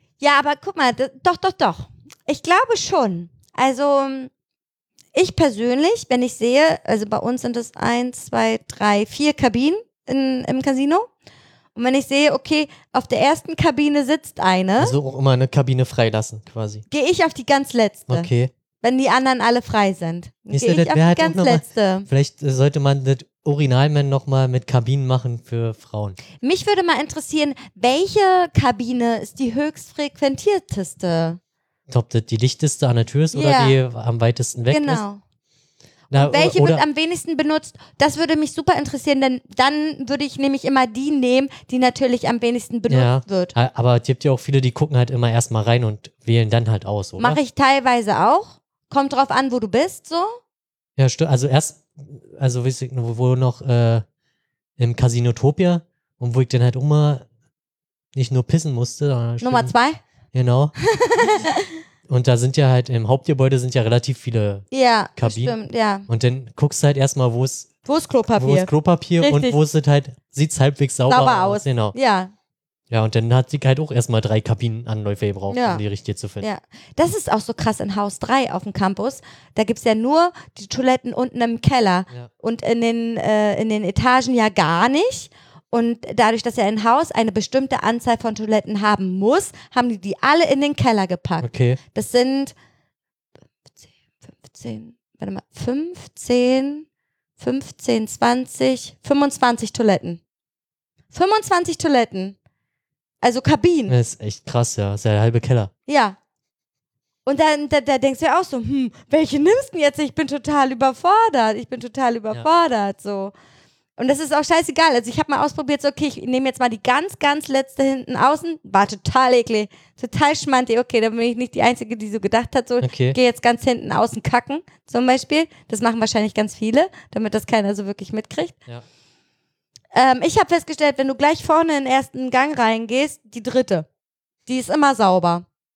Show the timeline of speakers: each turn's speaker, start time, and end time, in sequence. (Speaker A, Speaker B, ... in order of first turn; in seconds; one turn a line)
Speaker A: 0.2-4.3
Speaker A: 5.1-11.1
Speaker A: 11.7-14.9
Speaker B: 14.8-16.8
Speaker A: 16.9-22.1
Speaker B: 18.1-18.5
Speaker B: 20.5-26.2
Speaker A: 26.4-31.4
Speaker B: 31.9-35.0
Speaker A: 33.3-33.8
Speaker A: 34.7-35.2
Speaker B: 36.1-36.8
Speaker A: 36.1-43.5
Speaker B: 42.9-47.4
Speaker A: 47.2-50.4
Speaker B: 51.0-54.0
Speaker B: 54.8-57.2
Speaker B: 58.1-59.7
Speaker A: 59.4-60.0
Speaker B: 60.3-61.5
Speaker A: 60.9-61.8
Speaker B: 62.1-65.5
Speaker A: 64.7-66.1
Speaker B: 66.1-67.7
Speaker A: 67.8-69.6
Speaker B: 68.3-71.9
Speaker A: 71.1-72.3
Speaker B: 72.9-76.5
Speaker A: 75.5-75.8
Speaker A: 76.4-92.5
Speaker B: 91.4-91.8
Speaker A: 94.5-96.8
Speaker A: 97.4-100.2
Speaker A: 101.1-102.3
Speaker A: 103.2-103.9
Speaker B: 103.9-105.7
Speaker A: 105.9-106.2
Speaker A: 107.2-113.3
Speaker A: 114.0-128.6
Speaker B: 122.8-123.2
Speaker A: 129.9-133.8
Speaker A: 134.4-135.4